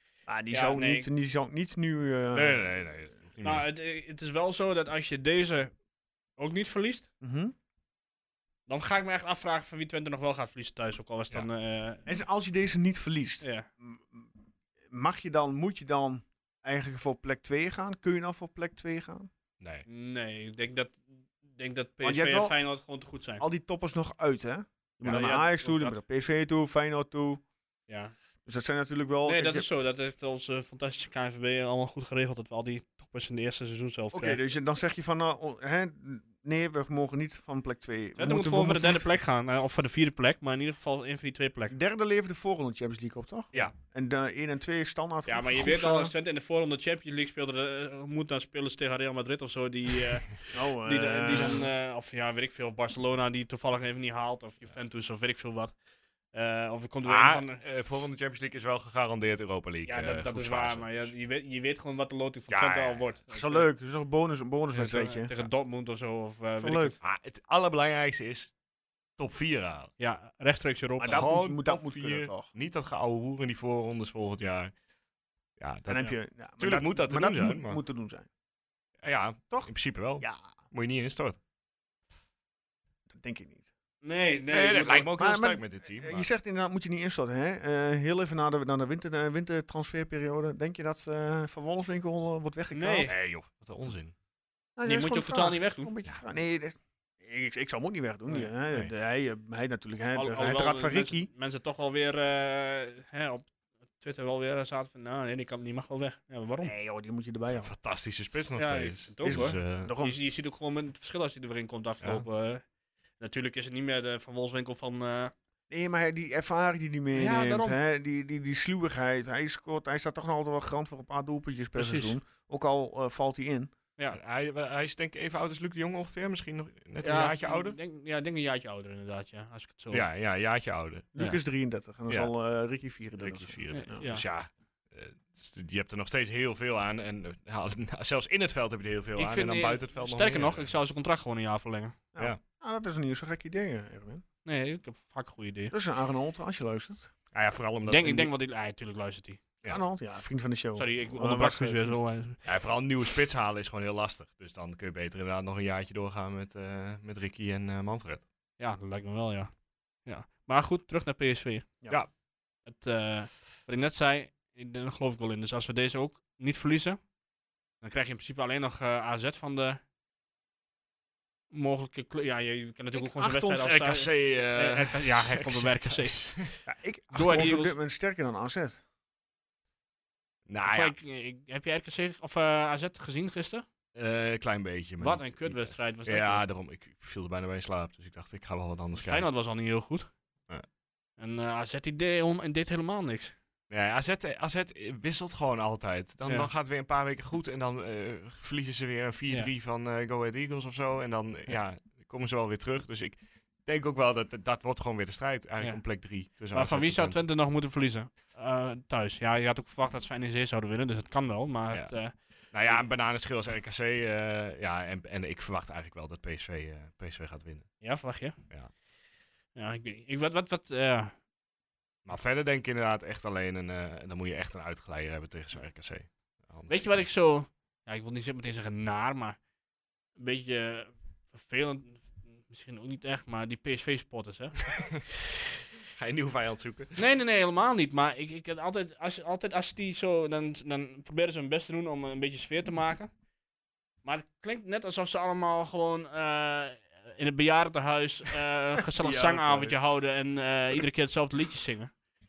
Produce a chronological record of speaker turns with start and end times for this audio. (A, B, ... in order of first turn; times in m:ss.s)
0:00.3-0:02.6 A
0:00.5-0:01.1 B
0:02.3-0:03.6 C
0:03.4-0:05.7 B
0:06.4-0:07.1 B
0:07.2-0:07.5 A
0:08.7-0:12.0 B
0:12.1-0:14.3 A
0:13.4-0:13.7 B
0:14.9-0:19.3 A
0:19.6-0:19.8 C
0:19.9-0:23.4 B
0:22.0-0:22.6 A
0:23.4-0:27.4 A
0:25.0-0:26.0 B
0:27.9-0:28.2 B
0:28.5-0:29.7 A
0:29.3-0:34.4 B
0:34.1-0:39.0 A
0:38.2-0:41.8 B
0:41.7-0:46.1 A
0:45.3-0:55.7 B
0:50.5-0:51.7 A
0:56.3-0:57.6 B
0:57.0-1:01.1 C
0:59.9-1:03.7 B
1:02.5-1:03.1 C
1:03.3-1:05.3 A
1:04.7-1:07.0 B
1:06.6-1:07.0 A
1:07.0-1:08.5 C
1:09.2-1:09.9 C
1:10.0-1:11.2 B
1:11.0-1:14.7 C
1:11.0-1:12.5 A
1:15.6-1:17.8 C
1:15.9-1:18.3 A
1:19.0-1:21.4 C
1:19.5-1:20.5 A
1:23.1-1:23.7 A
1:24.0-1:25.1 B
1:24.5-1:26.3 C
1:24.9-1:33.1 A
1:32.7-1:33.1 B
1:33.1-1:34.1 C
1:34.8-1:41.3 A
1:34.8-1:35.9 B
1:40.2-1:43.5 B
1:44.0-1:46.7 B
1:46.6-1:47.7 A
1:47.6-1:49.9 C
1:48.6-1:52.6 B
1:49.2-1:50.2 A
1:53.2-1:55.3 B
1:55.7-2:03.7 A
1:57.2-1:57.8 B
2:01.8-2:02.2 B
2:04.1-2:07.8 C
2:07.0-2:10.1 B
2:09.9-2:11.1 C
2:11.2-2:14.0 A
2:13.2-2:20.7 C
2:13.7-2:14.2 B
2:19.2-2:22.0 B
2:22.1-2:24.2 A
2:24.4-2:25.7 B
2:25.7-2:27.1 A
2:27.3-2:28.3 C
2:27.9-2:29.4 B
2:29.7-2:32.0 A
2:30.8-2:32.4 B
2:32.4-2:38.2 C
2:38.6-2:39.5 B
2:40.0-2:41.7 B
2:42.6-2:47.0 B
2:47.8-2:49.8 B
2:51.5-2:56.5 B
2:53.0-2:53.7 A
2:53.5-2:56.5 C
2:56.6-2:58.8 A
2:57.1-2:57.7 B
3:00.5-3:00.9 C
3:00.7-3:03.6 B
3:04.0-3:09.3 C
3:05.0-3:06.4 B
3:09.0-3:10.1 B
3:11.2-3:13.4 B
3:13.7-3:27.2 C
3:26.4-3:32.8 B
3:32.5-3:37.8 C
3:37.8-3:38.4 B
3:39.6-3:41.2 B
3:42.0-3:46.9 C
3:46.7-3:49.4 B
3:50.2-3:55.0 B
3:56.0-3:57.0 C
3:57.0-4:03.1 B
4:04.0-4:11.9 B
4:09.0-4:09.8 A